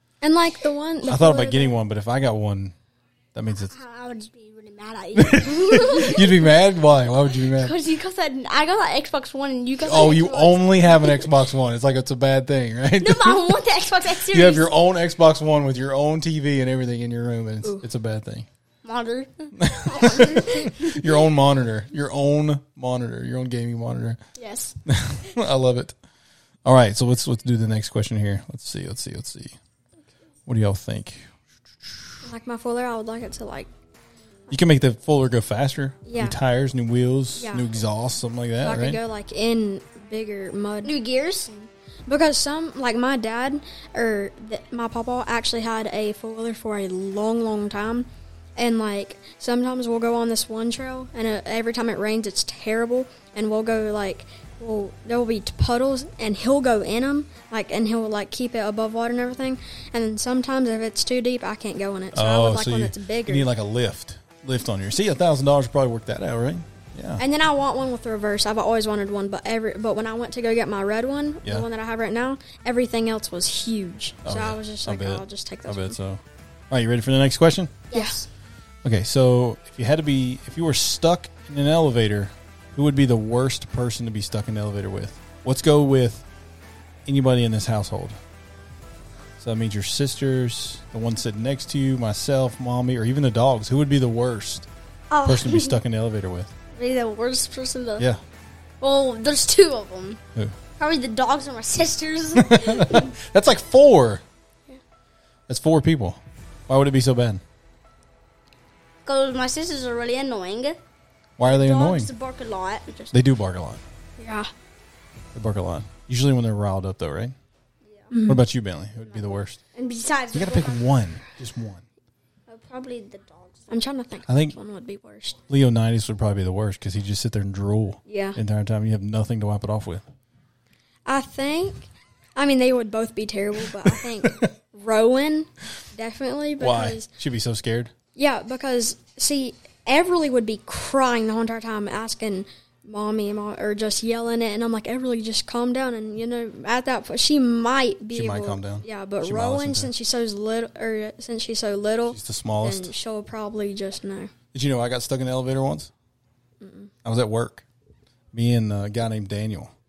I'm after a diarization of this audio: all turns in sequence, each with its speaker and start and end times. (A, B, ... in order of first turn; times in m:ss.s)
0:00.2-0:01.8 A
0:01.1-0:02.8 B
0:03.3-0:03.7 B
0:03.6-0:06.4 C
0:05.2-0:07.8 B
0:07.5-0:11.3 C
0:09.8-0:13.4 B
0:13.0-0:14.7 C
0:14.3-0:18.5 B
0:18.8-0:21.2 C
0:19.6-0:24.2 B
0:24.4-0:24.8 C
0:24.9-0:26.0 B
0:26.6-0:29.6 B
0:30.5-0:31.2 B
0:32.2-0:33.7 A
0:34.5-0:39.0 B
0:36.1-0:36.4 A
0:37.4-0:37.6 A
0:38.6-0:41.0 A
0:40.8-0:41.5 C
0:41.6-1:03.5 A
1:02.1-1:07.2 B
1:07.2-1:16.0 A
1:14.2-1:17.8 B
1:17.9-1:18.3 C
1:18.8-1:26.2 B
1:27.1-1:28.2 B
1:29.4-1:34.7 B
1:35.1-1:35.8 C
1:35.2-1:36.5 B
1:36.7-1:38.1 C
1:38.8-1:40.2 C
1:40.8-1:43.2 C
1:42.4-1:44.2 B
1:45.5-1:47.4 B
1:49.0-1:50.8 C
1:51.4-1:52.1 B
1:51.4-1:53.1 C
1:53.1-1:53.8 B
1:54.2-1:54.5 A
1:55.3-1:57.4 B
1:58.1-1:58.4 A
1:58.3-1:59.6 B
1:59.1-2:01.0 C
2:00.3-2:01.8 B
2:02.5-2:03.7 C
2:03.7-2:05.4 A
2:04.3-2:04.6 B
2:05.5-2:10.0 B
2:08.1-2:08.4 A
2:11.1-2:17.1 A
2:16.6-2:17.9 B
2:18.2-2:34.3 A
2:28.1-2:29.9 B
2:32.1-2:32.9 B
2:34.5-2:35.9 B
2:36.6-2:36.9 A
2:37.0-2:37.6 B
2:38.3-2:39.7 B